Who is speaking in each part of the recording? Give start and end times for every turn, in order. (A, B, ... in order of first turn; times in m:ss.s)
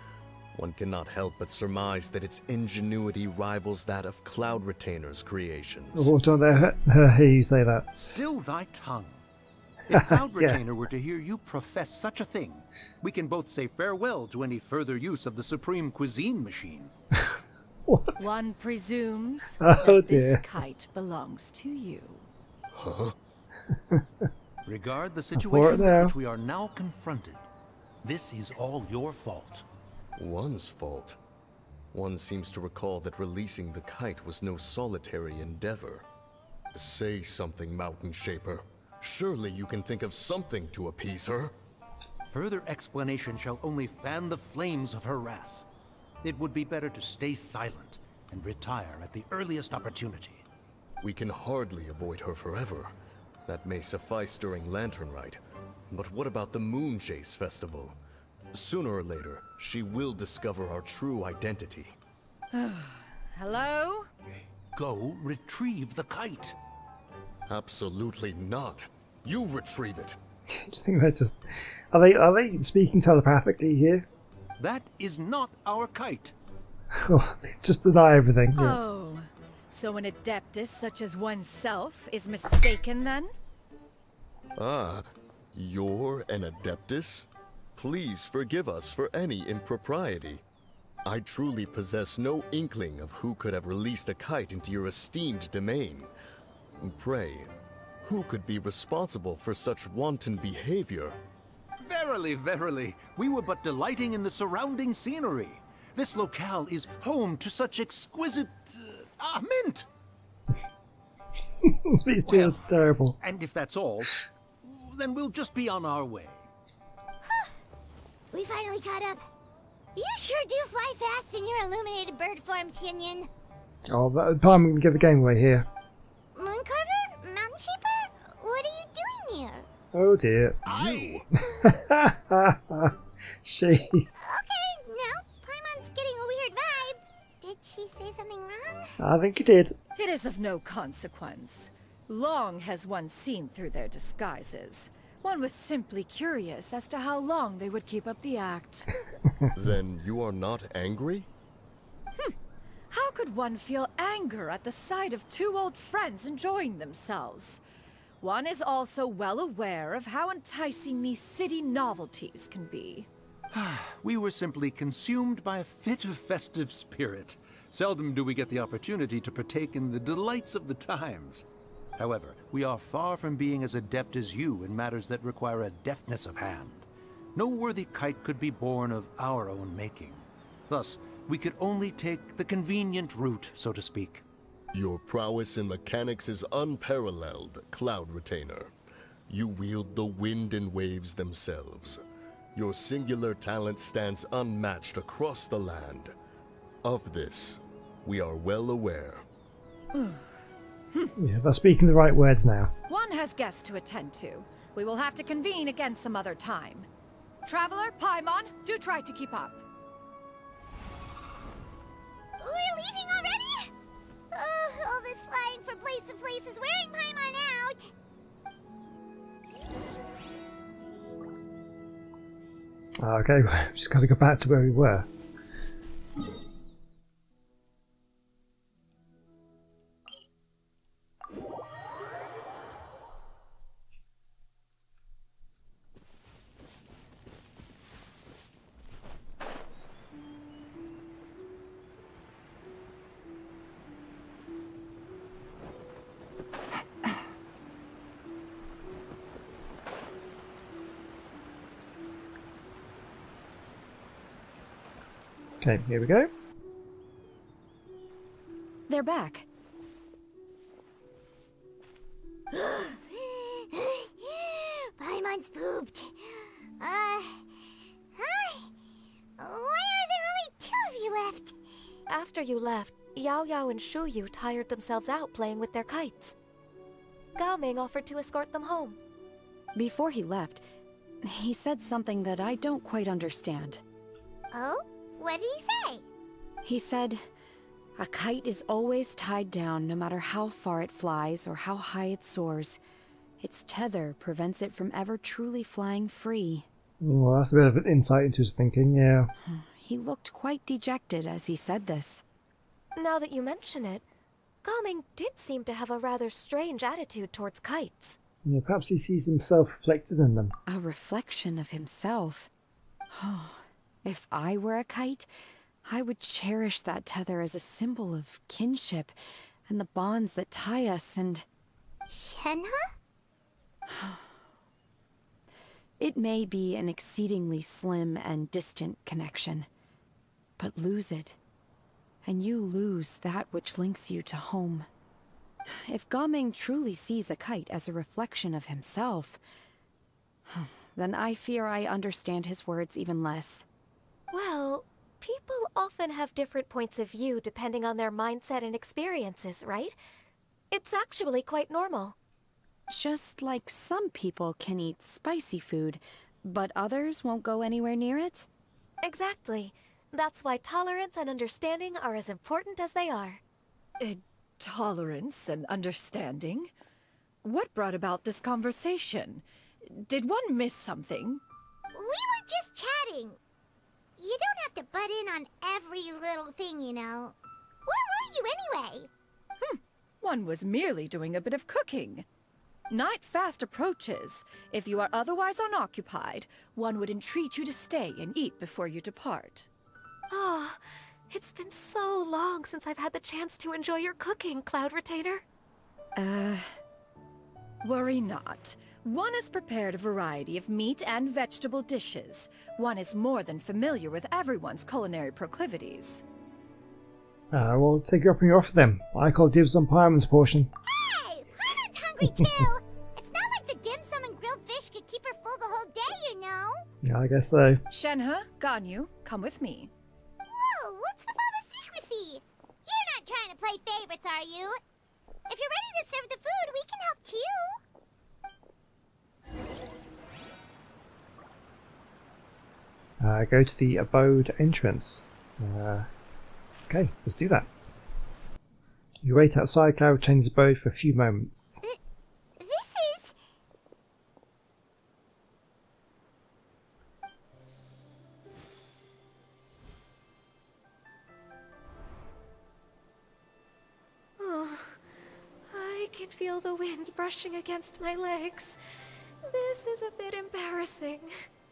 0:00.5-0:06.1 A
0:05.9-0:07.9 B
0:07.9-0:09.2 C
0:09.9-0:16.9 C
0:09.9-0:10.6 B
0:17.9-0:18.3 B
0:18.2-0:22.3 D
0:19.6-0:20.4 B
0:22.7-0:23.2 A
0:23.8-0:24.3 B
0:24.7-0:27.4 C
0:25.4-0:26.2 B
0:28.0-0:29.6 C
0:30.2-0:31.2 A
0:31.9-0:36.1 A
0:36.7-0:41.5 A
0:42.3-0:45.6 C
0:46.2-0:50.4 C
0:51.0-0:52.9 A
0:53.5-0:55.4 A
0:55.9-0:58.0 A
0:58.5-1:02.0 A
1:02.5-1:04.1 D
1:04.8-1:06.6 C
1:07.5-1:10.2 A
1:10.5-1:14.1 B
1:14.6-1:16.4 C
1:16.9-1:18.8 B
1:18.6-1:23.3 D
1:24.6-1:30.4 A
1:31.0-1:36.1 A
1:36.8-1:37.5 A
1:38.0-1:41.2 A
1:41.8-1:49.9 C
1:51.6-1:53.2 B
1:52.3-1:56.5 C
1:57.2-1:57.5 E
1:58.3-1:59.3 E
2:00.0-2:03.3 E
2:03.9-2:05.7 B
2:06.4-2:09.7 E
2:09.9-2:10.6 B
2:10.7-2:11.2 C
2:10.7-2:11.3 A
2:11.4-2:14.1 B
2:14.2-2:19.0 E
2:19.0-2:19.8 B
2:20.0-2:28.9 D
2:29.6-2:31.3 A
2:32.9-2:37.6 D
2:38.2-2:43.1 D
2:43.5-2:51.5 C
2:52.0-3:04.2 C
3:04.7-3:08.7 A
3:09.3-3:12.0 A
3:12.6-3:16.1 A
3:16.8-3:19.2 A
3:19.9-3:20.3 D
3:21.2-3:22.7 B
3:22.9-3:26.9 D
3:27.4-3:29.6 D
3:32.4-3:33.7 E
3:34.3-3:37.9 E
3:43.0-3:45.1 B
4:15.6-4:16.3 B
4:18.9-4:19.5 F
4:22.5-4:27.4 E
4:28.2-4:28.7 E
4:29.4-4:31.6 E
4:32.1-4:36.4 G
4:37.4-4:39.0 G
4:39.8-4:40.6 F
4:41.2-4:43.8 F
4:44.5-4:46.0 E
4:46.6-4:47.2 F
4:48.0-4:52.8 F
4:53.4-4:56.7 F
4:57.0-4:59.3 B
4:59.4-5:02.2 F
5:03.0-5:04.0 G
5:04.6-5:08.2 G
5:08.4-5:10.5 B
5:10.7-5:12.5 F
5:13.1-5:15.3 F
5:15.8-5:19.2 F
5:19.7-5:21.5 F
5:22.1-5:22.9 E
5:23.9-5:24.3 F
5:26.0-5:29.7 F
5:30.6-5:31.4 F
5:32.2-5:34.9 F
5:35.7-5:39.4 F
5:40.5-5:43.7 F
5:44.3-5:50.0 G
5:50.7-5:52.2 G
5:52.9-5:58.5 F
5:59.0-6:03.4 G
6:04.0-6:06.7 D
6:07.4-6:11.4 D
6:11.9-6:13.4 E
6:14.2-6:19.1 E
6:19.6-6:22.3 D
6:22.9-6:29.7 D
6:30.3-6:35.4 G
6:36.2-6:36.8 F
6:37.8-6:46.2 D
6:47.5-6:50.7 B
6:50.8-6:56.9 E
6:57.0-6:57.8 B
6:57.9-6:59.9 D
7:00.5-7:04.8 E
7:05.5-7:07.8 E
7:13.2-7:16.1 B
7:16.9-7:17.7 B
7:19.2-7:21.8 B
7:22.6-7:23.4 E
7:34.4-7:35.0 G
7:35.7-7:38.8 G
7:39.4-7:41.3 G